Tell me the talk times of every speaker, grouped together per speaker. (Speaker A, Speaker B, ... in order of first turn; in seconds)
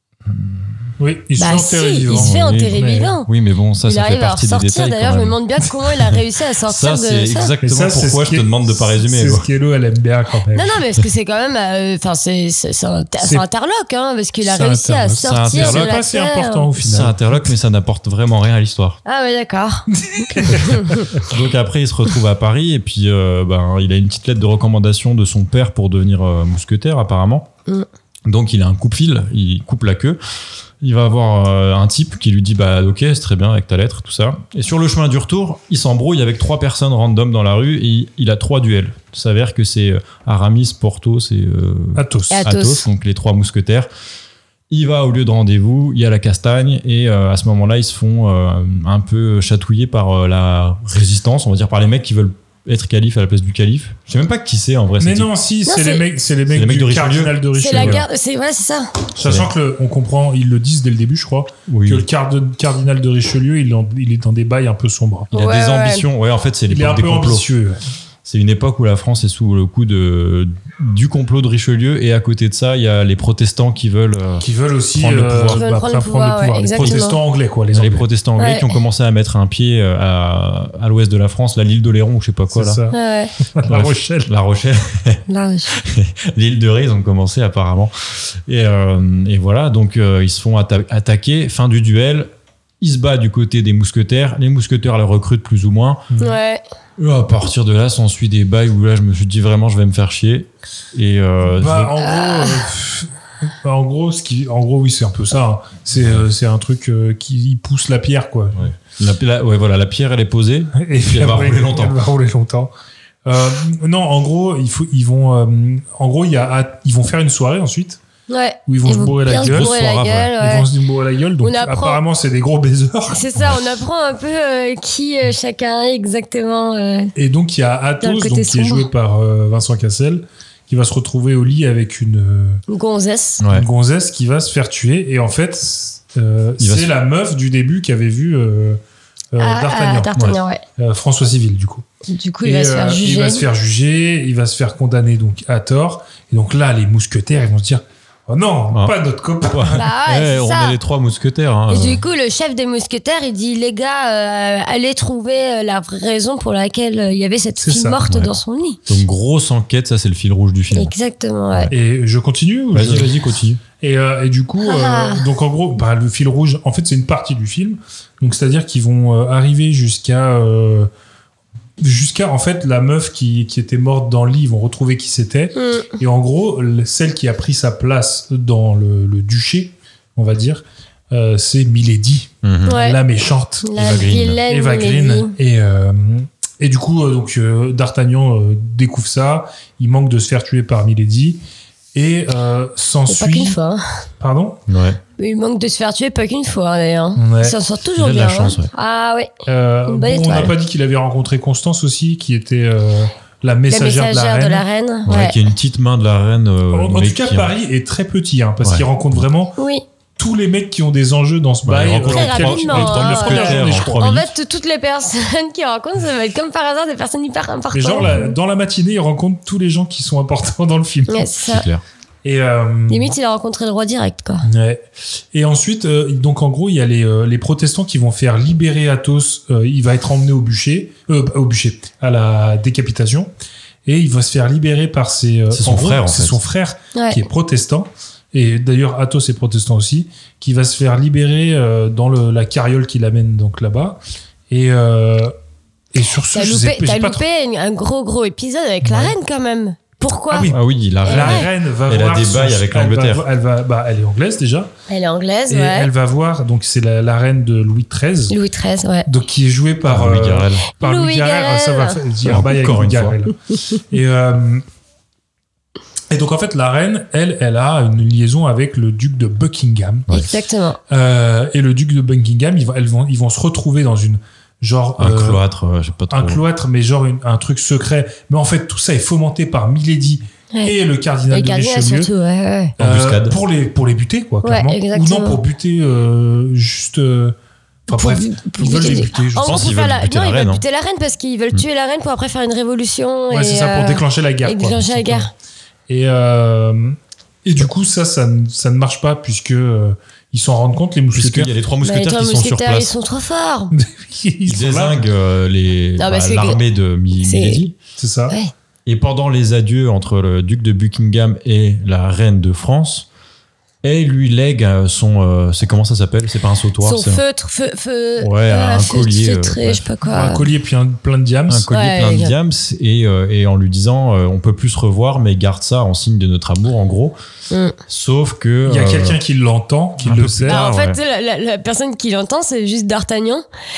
Speaker A: 0.3-0.9, 2.1-5.4, 6.7-9.5, 15.2-15.9, 16.8-19.0, 21.2-27.5, 28.2-30.2, 30.8-43.9, 44.7-55.3, 56.5-58.0, 59.2-59.5, 61.7-62.1, 65.3-67.5, 68.2-75.7, 76.8-77.1, 77.7-82.8, 83.7-85.2, 85.7-92.3, 92.8-96.0, 97.0-101.9, 106.0-106.2, 108.6-112.0, 119.3-120.3, 133.4-133.7, 136.6-136.9, 148.7-152.0, 158.9-160.9, 162.7-163.6, 182.4-182.8, 183.8-184.4, 194.7-195.0, 197.9-198.7, 205.1-207.5, 208.6-209.2, 211.6-214.3, 221.5-221.8, 235.5-236.4, 250.5-253.2, 259.8-260.6, 262.2-263.2, 275.0-276.4, 282.8-283.4, 289.4-290.6, 301.1-302.9, 304.4-307.7, 308.9-313.1, 313.8-317.2, 318.2-319.9, 321.5-327.1, 327.9-329.2, 330.0-331.0
Speaker B: 1.0-3.1, 7.6-10.8, 13.2-13.4, 14.4-17.4, 19.9-21.0, 42.0-42.4, 55.0-58.0, 59.1-65.3, 66.7-67.8, 74.4-78.1, 82.5-83.0, 83.5-84.3, 96.1-96.4, 101.5-108.7, 110.8-112.7, 113.2-118.0, 118.7-119.8, 120.4-123.2, 127.1-132.6, 133.5-138.8, 139.3-141.8, 142.4-149.8, 157.6-158.0, 161.7-163.1, 163.8-170.9, 171.8-183.7, 184.4-191.4, 191.9-193.6, 194.2-194.6, 197.2-197.6, 199.5-204.6, 206.7-209.5, 210.2-214.1, 217.7-221.3, 222.2-223.1, 224.4-233.3, 233.8-245.3, 245.9-247.2, 248.8-249.1, 250.3-254.7, 255.5-258.3, 259.1-263.4, 263.9-264.6, 266.1-270.1, 270.9-275.4, 276.1-282.1, 282.8-287.3, 287.9-289.7, 293.3-295.3, 295.9-301.5, 303.7-305.0, 308.0-308.4, 320.1-321.7, 328.6-330.6
Speaker C: 1.4-3.3, 3.8-7.5, 10.5-16.7, 19.1-21.0, 42.3-42.8, 55.6-56.0, 57.5-58.9, 65.3-66.0, 75.5-77.2, 78.4-78.7, 82.9-83.3, 85.3-85.8, 96.2-96.6, 102.0-102.6, 118.3-120.7, 121.4-122.0, 123.1-127.1, 128.0-128.9, 132.7-133.4, 139.4-140.6, 142.1-143.4, 149.8-150.8, 151.7-158.8, 160.7-161.7, 164.6-165.2, 175.5-175.9, 182.7-183.0, 183.6-185.3, 193.1-193.8, 195.2-199.3, 199.9-200.5, 203.7-205.4, 209.6-209.8, 212.0-218.3, 221.1-221.6, 222.9-224.4, 236.9-237.2, 246.3-250.5, 251.0-251.5, 254.9-255.9, 258.3-259.1, 260.8-262.0, 270.1-270.8, 281.3-282.7, 284.4-285.4, 287.9-295.3, 301.8-303.7, 306.0-306.6, 307.2-307.6, 316.8-320.4, 321.7-322.3, 327.5-327.8, 330.5-333.4